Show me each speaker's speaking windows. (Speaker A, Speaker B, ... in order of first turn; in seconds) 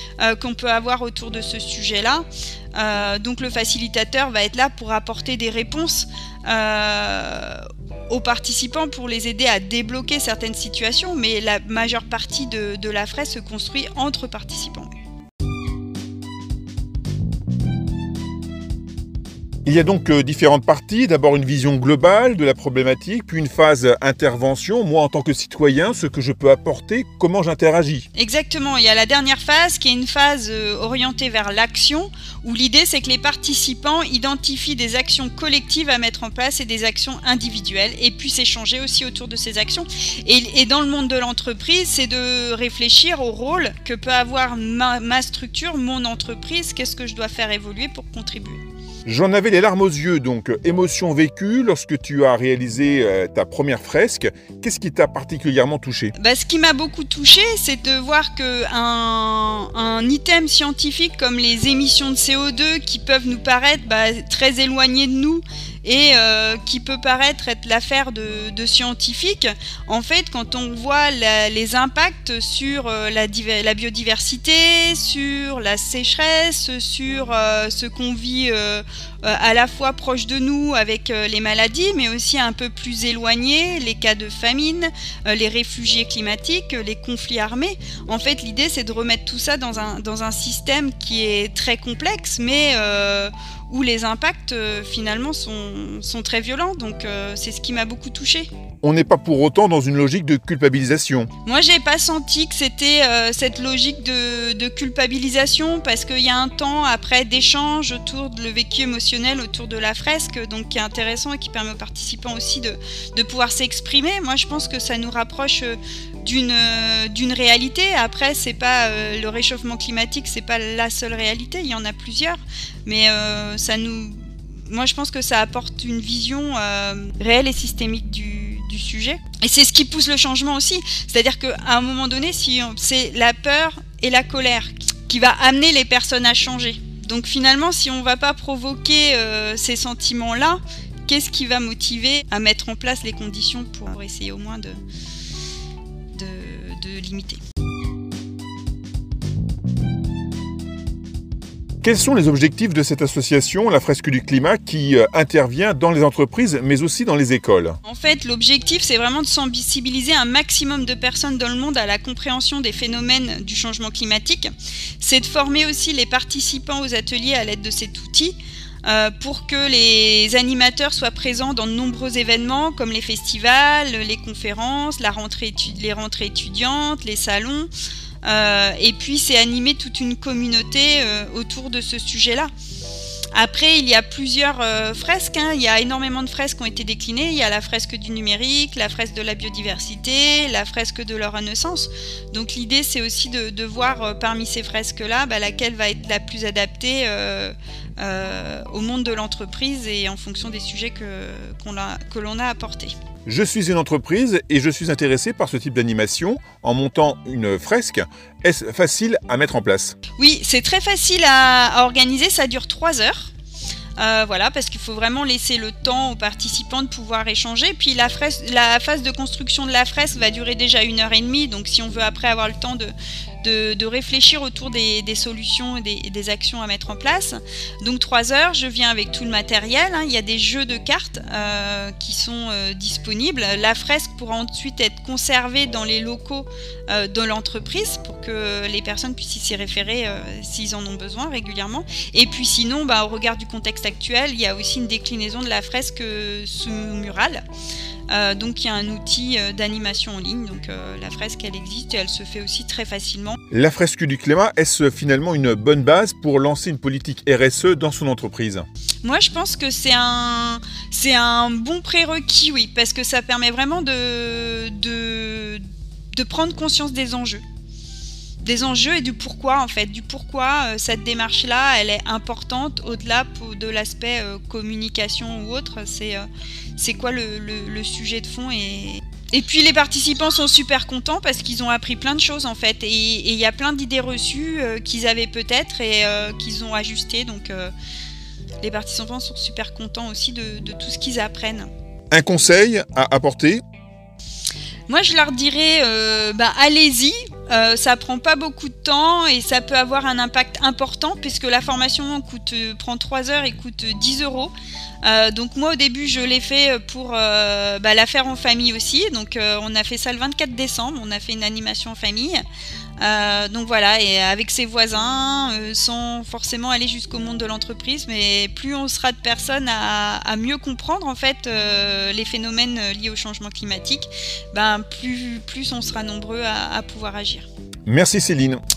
Speaker A: 0.2-14.9, 28.2-48.6, 56.2-98.5, 101.5-144.8, 146.1-147.4, 157.8-164.5, 165.0-177.7, 178.2-182.5, 183.3-202.9, 210.2-213.3, 214.0-247.4, 248.1-253.4, 259.0-265.6, 266.1-267.4, 268.4-276.3, 276.8-287.7, 288.6-291.7, 294.9-304.5, 305.0-312.4, 313.0-327.5
Speaker B: 19.6-28.1, 49.1-56.1, 98.8-101.3, 151.8-157.8, 203.3-210.0, 253.5-258.7, 292.1-293.6, 327.9-328.6